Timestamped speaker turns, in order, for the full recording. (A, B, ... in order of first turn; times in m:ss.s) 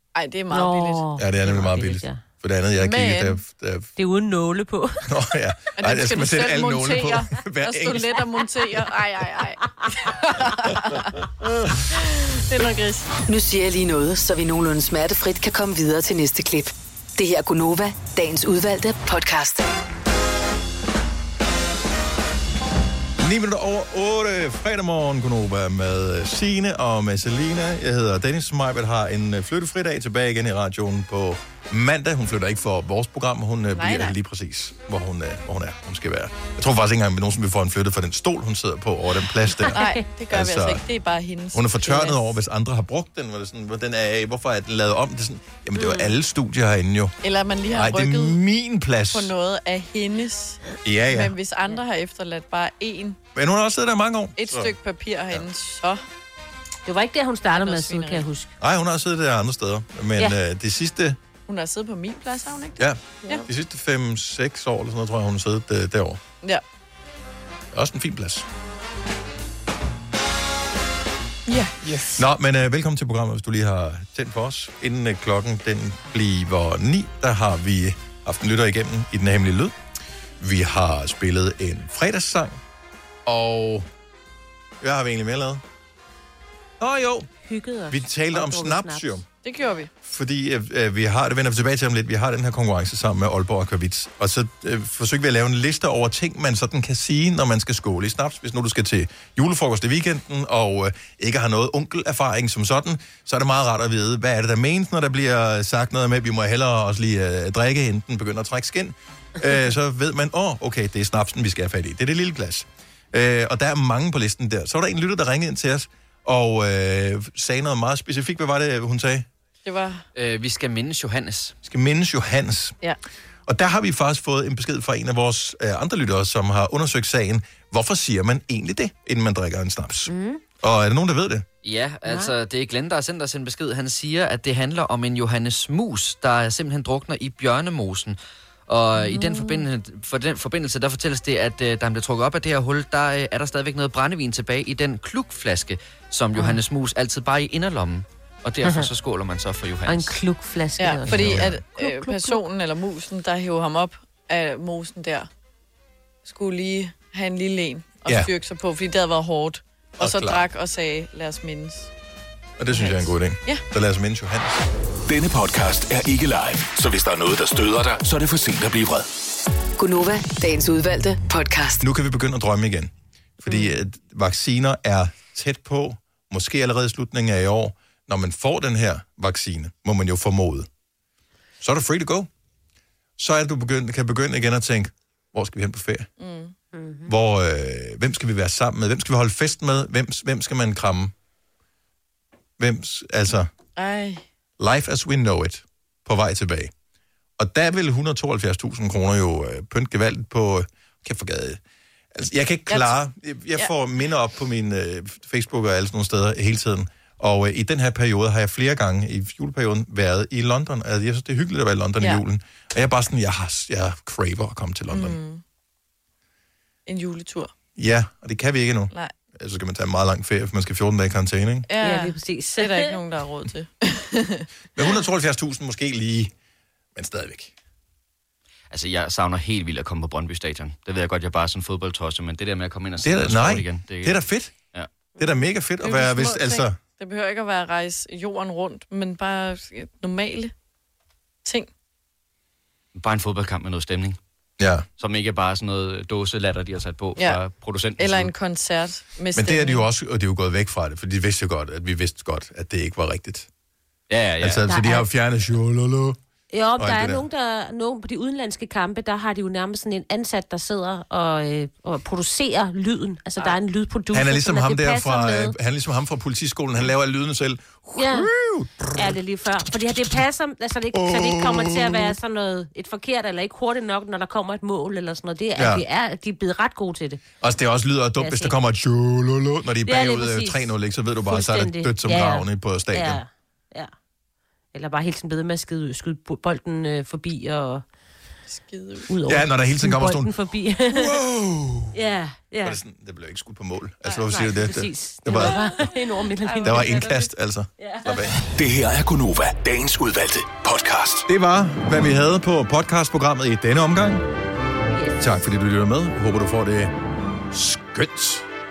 0:00.2-0:01.1 A
0:00.5-0:02.2 B
0:01.2-0:03.9 C
0:02.8-0:03.4 A
0:04.0-0:05.1 B
0:05.1-0:08.2 C
0:05.8-0:11.3 A
0:11.9-0:13.1 A
0:13.3-0:19.6 D
0:23.2-0:39.8 C
0:33.8-0:34.1 A
0:39.7-0:42.2 A
0:39.7-0:40.0 B
0:40.3-0:40.8 C
0:41.5-0:47.2 C
0:45.8-0:46.1 B
0:47.2-0:48.4 A
0:47.7-0:49.3 C
0:49.1-0:53.2 A
0:50.8-0:51.4 C
0:53.4-0:54.8 C
0:54.4-0:56.0 A
0:56.9-0:58.5 B
0:57.5-0:58.3 A
0:58.6-1:01.2 C
1:01.5-1:03.5 A
1:02.8-1:06.2 C
1:07.7-1:08.5 C
1:11.5-1:12.2 A
1:12.2-1:19.8 C
1:20.4-1:22.6 C
1:23.3-1:23.9 C
1:24.8-1:25.6 C
1:26.8-1:27.3 C
1:27.4-1:29.2 B
1:27.9-1:29.3 C
1:29.4-1:29.9 A
1:30.0-1:59.3 C
1:59.6-2:00.0 A
2:00.2-2:01.6 E
2:01.6-2:02.8 C
2:03.5-2:11.5 C
2:10.1-2:10.4 B
2:11.6-2:30.2 E
2:12.0-2:12.3 B
2:19.0-2:19.7 B
2:28.6-2:28.9 B
2:29.9-2:32.4 B
2:30.8-2:35.3 A
2:31.1-2:31.6 C
2:36.2-2:41.9 A
2:38.1-2:38.3 C
2:40.0-2:40.5 C
2:42.6-2:44.6 C
2:42.7-2:43.6 A
2:45.1-2:49.1 F
2:49.8-2:51.8 D
2:51.8-3:00.7 C
3:01.6-3:02.3 C
3:03.2-3:06.1 C
3:06.2-3:06.5 A
3:06.7-3:07.1 B
3:07.1-3:11.1 C
3:12.6-3:13.5 C
3:13.8-3:14.2 A
3:14.6-3:16.7 C
3:17.4-3:21.6 C
3:22.1-3:35.2 C
3:22.7-3:23.0 A
3:34.9-3:35.4 A
3:36.9-3:37.5 A
3:37.8-3:41.7 C
3:41.7-3:44.5 A
3:41.8-3:43.0 B
3:44.8-3:46.3 C
3:47.0-3:47.5 C
3:48.7-3:54.2 E
3:53.0-3:54.6 C
3:55.2-3:56.8 C
3:55.8-4:00.5 A
4:01.4-4:01.7 A
4:03.0-4:04.2 E
4:04.6-4:04.9 C
4:05.0-4:08.3 E
4:08.0-4:09.8 A
4:09.3-4:13.5 C
4:14.1-4:14.7 E
4:14.4-4:16.2 C
4:14.7-4:15.1 B
4:16.5-4:25.6 B
4:16.8-4:17.3 C
4:24.1-4:29.2 C
4:28.0-4:28.3 B
4:29.0-4:37.2 B
4:29.7-4:30.2 C
4:30.9-4:32.2 C
4:35.6-4:35.8 C
4:37.4-4:43.2 C
4:38.2-4:38.6 B
4:39.9-4:40.7 B
4:41.3-4:43.9 B
4:44.7-4:47.8 B
4:48.5-4:49.1 A
4:49.1-4:51.2 B
4:49.3-4:50.3 C
4:50.9-4:52.0 C
4:51.9-4:52.8 B
4:52.6-4:55.9 C
4:54.1-4:54.4 A
4:54.3-4:57.2 B
4:55.3-4:57.2 A
4:56.6-4:58.4 C
4:57.8-4:58.2 B
4:58.4-5:01.3 F
5:01.3-5:04.2 C
5:04.9-5:05.4 B
5:05.2-5:06.9 C
5:07.5-5:08.5 C